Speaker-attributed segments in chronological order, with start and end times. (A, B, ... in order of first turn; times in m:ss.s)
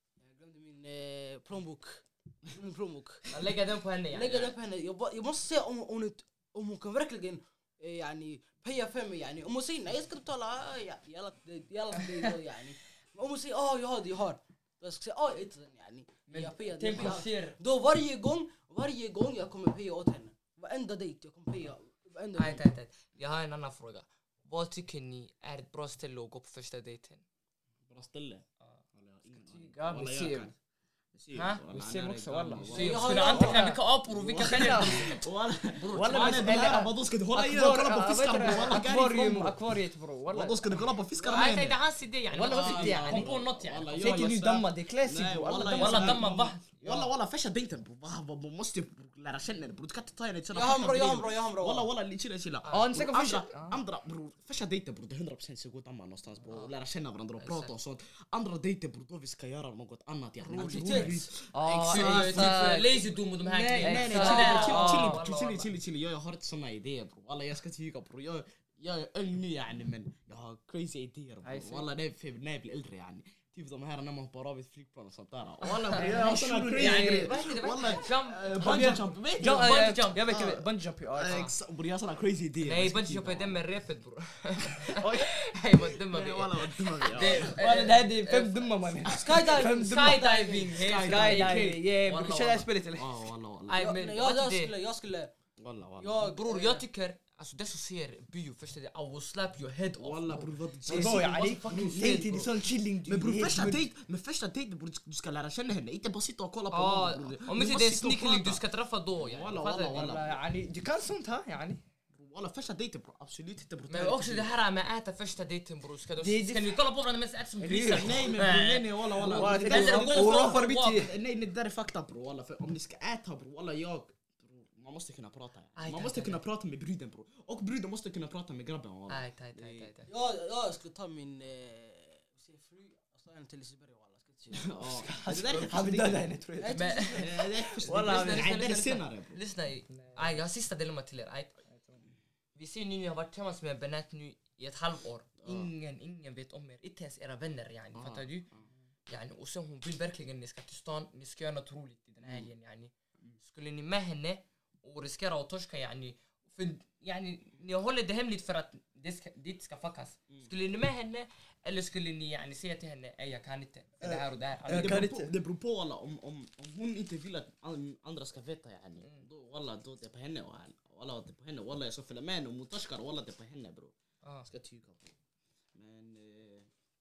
0:00.2-0:03.3 A
0:03.3-0:04.6 B
0:04.1-0:22.6 A
0:16.3-0:17.6 B
0:22.4-0:27.2 B
0:27.9-0:30.5 C
0:29.4-0:30.5 D
0:31.1-0:33.2 C
0:31.3-0:31.6 B
0:31.7-0:33.8 D
0:32.6-0:33.6 A
0:32.6-0:35.2 B
0:34.1-0:39.6 C
0:34.3-0:35.2 D
0:35.8-0:36.8 B
0:35.9-0:40.8 D
0:40.3-0:41.8 C
0:41.1-0:41.6 A
0:41.3-0:44.2 B
0:42.3-0:43.3 D
0:42.4-1:02.6 C
0:44.0-0:46.3 D
0:45.7-0:47.1 B
0:50.5-0:51.9 A
0:52.6-0:52.9 B
0:52.7-0:53.8 D
0:57.4-0:57.7 B
1:00.4-1:01.2 B
1:00.5-1:01.1 A
1:01.5-1:03.0 D
1:01.8-1:05.7 B
1:03.4-1:23.6 C
1:03.8-1:05.2 D
1:11.4-1:11.9 D
1:15.9-1:17.4 D
1:15.9-1:20.2 B
1:18.6-1:21.5 D
1:22.6-1:32.7 B
1:25.8-1:27.6 C
1:27.2-1:30.2 D
1:29.0-1:30.9 A
1:29.0-1:29.4 C
1:30.8-1:31.8 C
1:30.8-1:33.1 D
1:33.0-1:33.8 C
1:33.7-1:34.7 B
1:33.8-1:35.3 A
1:35.6-1:36.3 C
1:36.0-1:36.8 A
1:36.2-1:41.4 B
1:40.0-1:48.6 C
1:40.9-1:43.9 D
1:41.2-1:42.2 A
1:46.7-1:50.1 B
1:49.2-1:50.4 C
1:49.9-1:51.8 D
1:52.1-1:54.5 C
1:53.9-2:01.1 B
1:56.2-1:56.7 D
1:57.6-1:58.3 D
1:57.9-2:09.9 C
1:59.2-2:01.1 D
2:05.8-2:06.4 B
2:09.1-2:10.1 B
2:10.1-2:15.0 A
2:14.5-2:16.2 C
2:14.9-2:18.5 D
2:16.6-2:17.3 A
2:16.7-2:17.3 B
2:17.2-2:19.4 C
2:17.8-2:21.6 B
2:19.9-2:20.3 D
2:21.7-2:22.0 D
2:22.6-2:28.5 B
2:25.4-2:25.7 C
2:27.9-2:28.6 C
2:29.1-2:32.9 B
2:32.2-2:32.5 C
2:33.4-2:45.0 B
2:44.0-2:53.9 C
2:44.6-2:45.3 D
2:54.4-2:55.1 C
2:55.7-2:56.7 C